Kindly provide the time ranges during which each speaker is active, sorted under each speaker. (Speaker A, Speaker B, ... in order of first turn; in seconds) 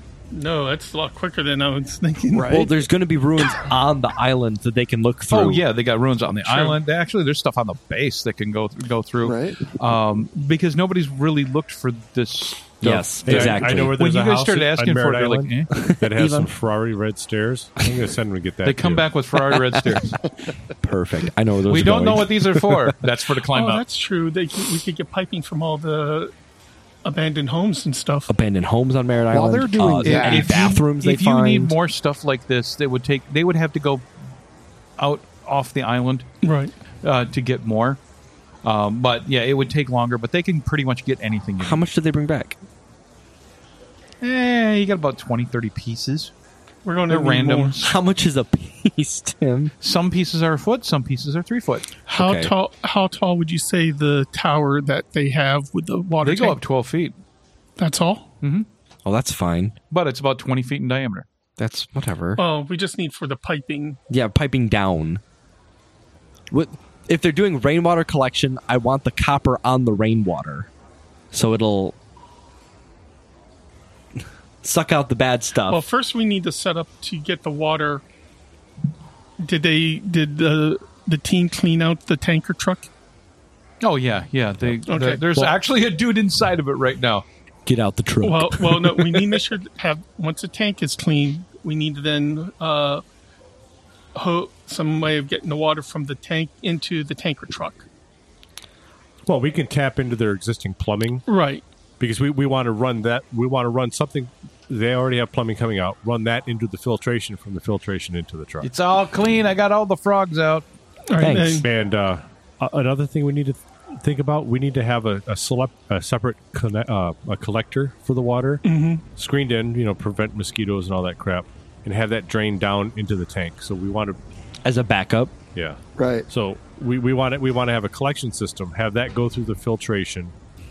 Speaker A: 0.3-2.7, 6.4-6.8, 23.5-26.3, 27.1-28.3, 36.4-36.7, 46.9-47.8, 52.1-56.6, 57.8-58.3, 62.4-64.0, 75.7-78.0, 79.4-82.9, 84.9-85.5, 88.2-93.0, 94.2-97.8, 101.3-101.6, 111.1-111.7, 118.7-119.0
Speaker B: 2.3-2.7, 9.2-9.7, 29.3-30.7, 126.0-126.3
Speaker C: 2.4-5.7, 12.8-14.0, 15.7-16.5, 20.8-22.9, 28.3-31.8, 41.6-42.6, 47.8-49.7, 52.1-52.5, 59.0-59.8, 61.6-62.4, 64.1-65.2, 66.5-70.7, 71.3-72.0, 74.6-75.8, 87.7-89.4, 111.2-111.7, 124.7-125.4
Speaker D: 5.3-15.7, 18.6-20.2, 21.7-23.8, 30.0-34.0, 35.0-36.3, 37.0-38.0, 38.6-41.9, 44.2-46.3, 47.1-47.9, 49.8-51.9, 56.2-57.1, 58.4-58.7, 59.9-61.3, 83.8-87.2, 108.6-110.7
Speaker E: 13.2-19.1, 99.3-101.2, 102.0-108.7, 111.6-118.6, 119.2-124.2, 126.3-130.3